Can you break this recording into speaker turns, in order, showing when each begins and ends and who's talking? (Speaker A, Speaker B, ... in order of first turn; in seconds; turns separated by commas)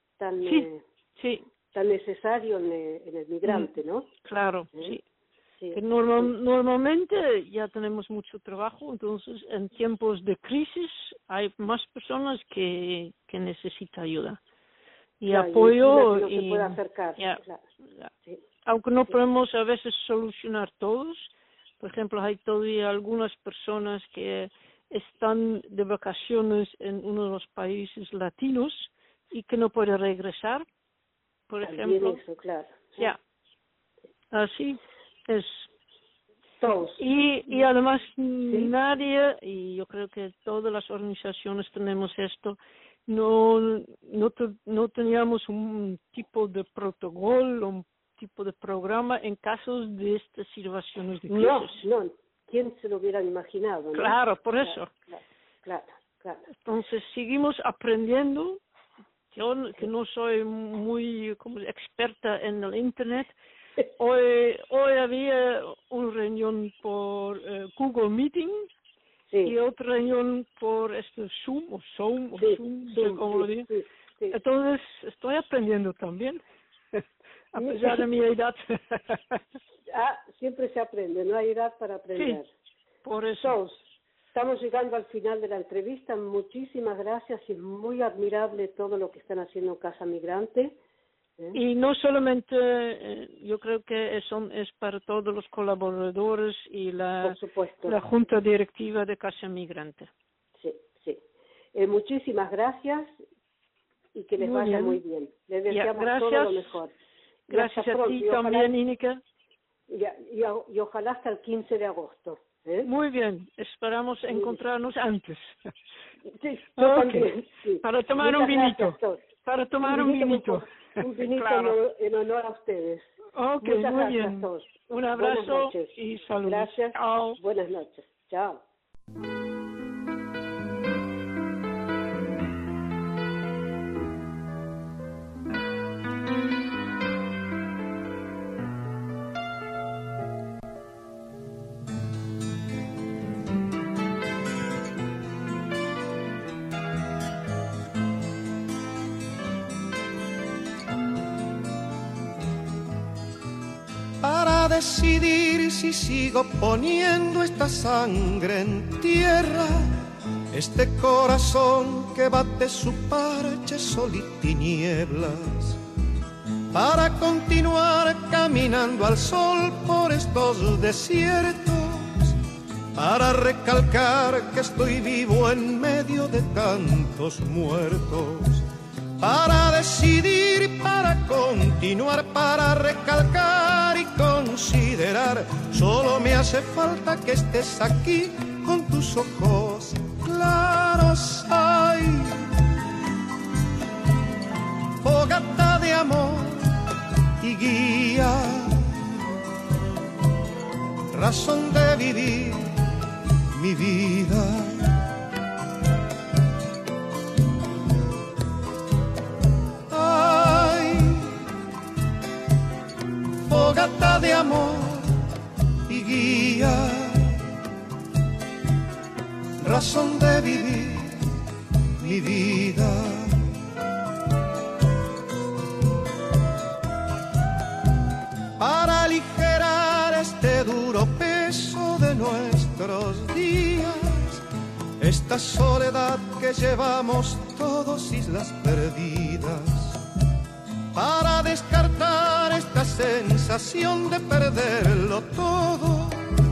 Speaker A: 0.2-0.8, Speaker B: 0.4-1.4, Speaker A: 1.7-4.1, Speaker B: 3.5-3.7, Speaker B: 4.2-5.0, Speaker A: 5.6-6.3, Speaker B: 5.7-14.4, Speaker B: 15.2-17.4, Speaker A: 15.3-17.6, Speaker B: 18.6-21.3, Speaker B: 21.8-30.6, Speaker B: 31.5-32.2, Speaker A: 31.6-33.1, Speaker B: 34.3-35.7, Speaker A: 36.6-37.0, Speaker B: 37.0-51.8, Speaker A: 51.3-56.4, Speaker B: 54.0-54.9, Speaker B: 56.6-58.6, Speaker B: 59.3-63.3, Speaker B: 64.0-68.7, Speaker A: 69.3-69.5, Speaker B: 69.5-73.7, Speaker A: 72.4-74.4, Speaker B: 74.3-76.4, Speaker B: 77.5-79.4, Speaker A: 77.6-78.0, Speaker A: 79.9-82.5, Speaker B: 82.2-82.4, Speaker B: 83.0-83.6, Speaker A: 83.4-83.8, Speaker A: 84.3-90.8, Speaker B: 91.5-100.1, Speaker A: 97.2-98.0, Speaker A: 100.6-101.2, Speaker A: 101.8-103.1, Speaker A: 104.2-106.9, Speaker B: 104.4-105.0, Speaker B: 105.7-106.6, Speaker A: 107.5-108.7, Speaker B: 107.5-109.2, Speaker A: 109.9-112.9, Speaker B: 112.8-115.5, Speaker A: 114.3-114.6, Speaker A: 116.3-119.2, Speaker B: 116.8-121.8, Speaker A: 119.8-123.1, Speaker B: 123.3-127.4, Speaker A: 123.6-128.6, Speaker C: 154.2-165.8, Speaker C: 166.7-172.4, Speaker C: 172.9-178.7, Speaker C: 179.2-192.5, Speaker C: 195.0-196.8, Speaker C: 197.4-199.2, Speaker C: 201.1-202.8, Speaker C: 203.5-205.0, Speaker C: 209.9-211.4, Speaker C: 213.5-215.2, Speaker C: 215.9-217.5, Speaker C: 219.6-221.2, Speaker C: 222.0-223.6, Speaker C: 228.6-234.4, Speaker C: 235.0-240.0, Speaker C: 240.9-246.3